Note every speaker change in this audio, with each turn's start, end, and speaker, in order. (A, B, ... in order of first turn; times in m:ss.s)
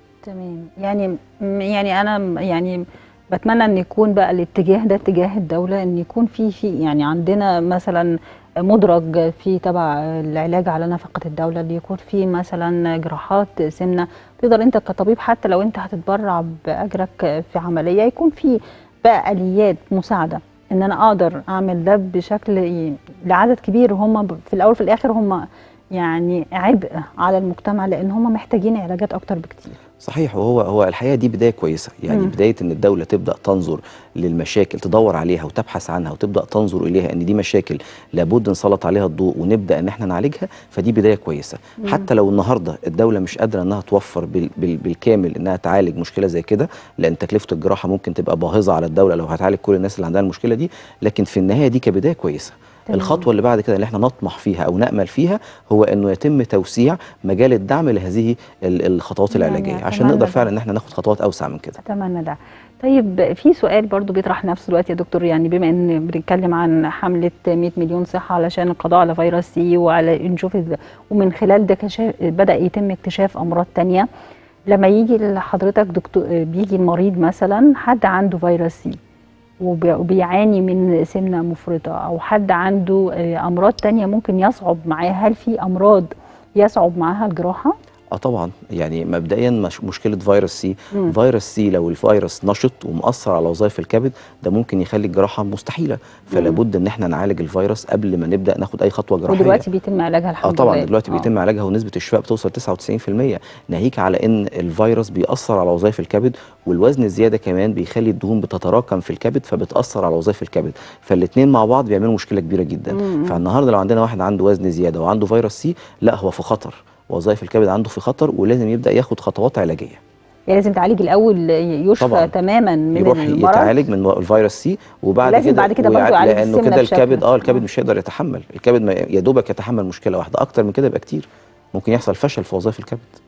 0:00.2-0:08.1 A
0:08.6-0:25.4 A
0:25.9-0:29.8 A
0:30.0-1:01.8 B
0:32.1-0:32.3 A
0:41.8-0:42.1 A
0:52.9-0:53.3 A
0:59.3-1:00.5 A
1:01.8-1:14.1 A
1:14.7-1:19.0 A
1:19.6-1:27.7 A
1:28.2-1:39.6 B
1:36.3-1:36.6 A
1:39.3-1:41.3 A
1:40.4-2:00.0 B
1:52.9-1:53.4 A
2:00.5-2:03.8 A
2:02.0-2:02.3 B
2:03.0-2:13.2 B
2:05.2-2:07.6 A